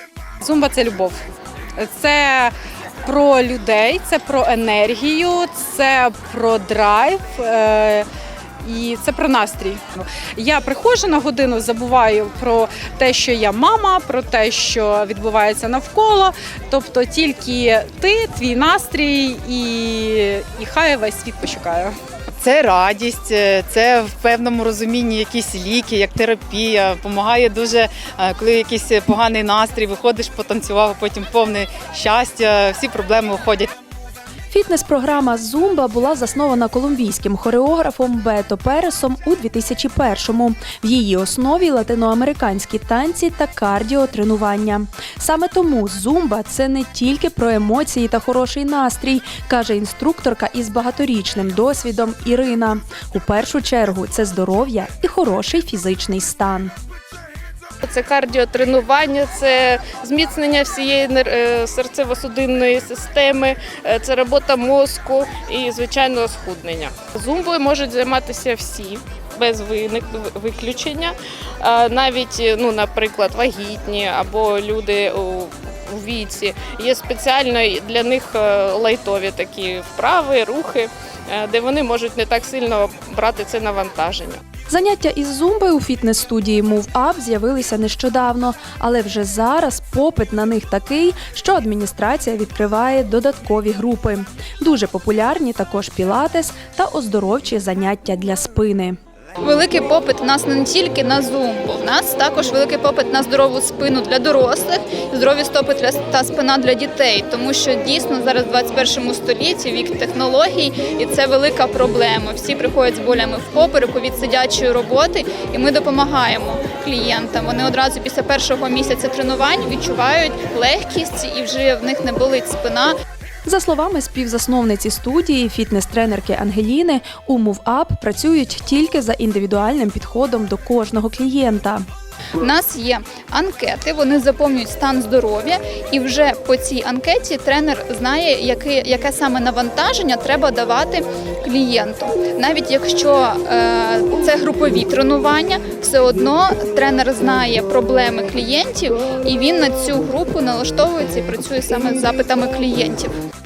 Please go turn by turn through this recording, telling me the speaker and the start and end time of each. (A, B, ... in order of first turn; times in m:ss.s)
0:00.4-0:01.2 A
0:01.8-0:08.1 A
0:08.6-0:21.9 A
0:22.4-0:33.7 B
0:34.5-0:56.7 C
0:57.8-1:24.4 D
1:24.7-1:39.0 C
1:39.4-2:02.9 E
2:03.4-2:11.8 C
2:12.4-2:33.2 E